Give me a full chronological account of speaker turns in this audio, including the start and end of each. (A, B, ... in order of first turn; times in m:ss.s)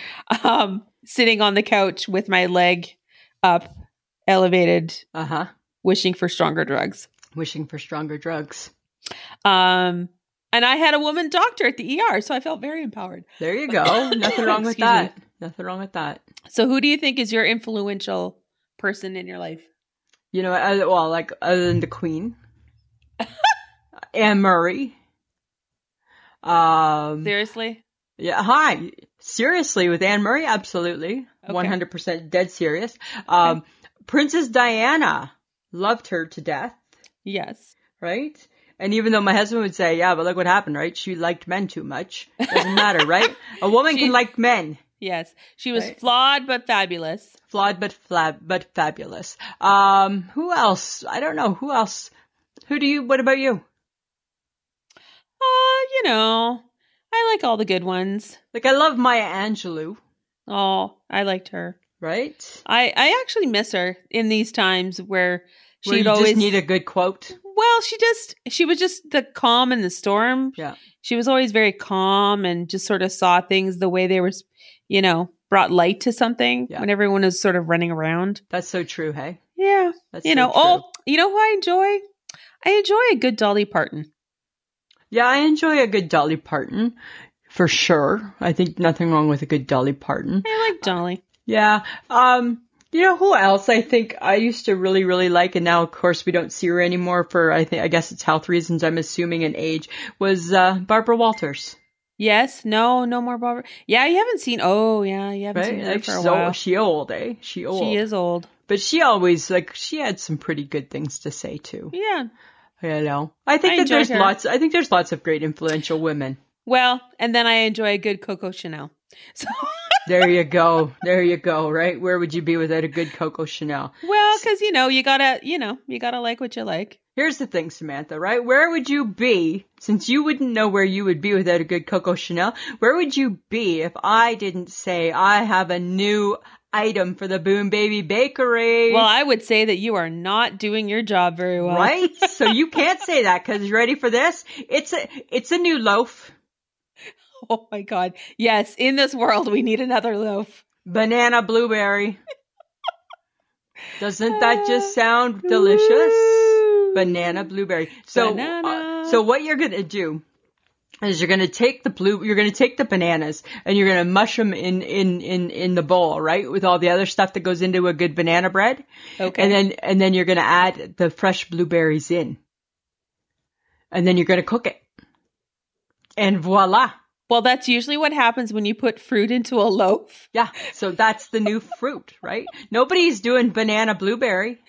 0:00.3-0:03.7 A
0:04.3-0:05.0 A
0:05.1-0:05.5 B
0:05.8-0:07.1 A
0:07.4-0:08.7 B
0:09.4-0:15.1 A
0:13.4-0:16.2 B
0:16.5-0:19.7 A
0:20.3-0:22.4 B
0:24.1-0:25.0 B
0:26.4-0:27.3 B
0:27.2-0:27.8 A
0:28.2-0:36.8 B
0:31.5-0:31.8 A
0:37.2-0:37.7 A
0:38.0-0:44.8 B
0:42.5-0:43.3 A
0:43.9-0:44.2 A
0:45.0-0:47.4 A
0:47.5-0:52.1 B
0:52.7-0:53.6 B
0:55.4-0:58.4 A
0:58.5-1:00.0 B
1:00.5-1:01.8 A
1:02.0-1:02.6 B
1:02.7-1:06.6 A
1:05.8-1:07.4 B
1:07.4-1:18.4 A
1:18.5-1:19.4 B
1:19.6-1:22.0 A
1:20.1-1:20.8 B
1:22.6-1:24.1 A
1:25.1-1:27.0 B
1:27.5-1:30.5 B
1:30.4-1:31.2 A
1:31.5-1:41.8 B
1:42.2-1:46.6 A
1:45.5-1:48.0 B
1:47.7-1:48.5 A
1:48.7-1:51.9 B
1:51.9-1:52.3 A
1:52.8-1:56.4 B
1:53.6-1:54.3 A
1:56.6-2:00.1 A
2:00.1-2:04.4 B
2:04.0-2:07.0 A
2:07.2-2:19.1 B
2:18.9-2:22.5 A
2:21.6-2:26.3 B
2:27.3-2:30.6 A
2:30.9-2:32.2 B
2:34.0-2:40.2 B
2:34.3-2:34.9 A
2:35.4-2:37.5 A
2:38.1-2:39.2 A
2:41.0-2:52.4 B
2:49.2-2:49.6 A
2:53.9-2:54.8 B
2:56.2-2:57.0 B
2:57.3-3:00.3 A
3:00.3-3:04.6 B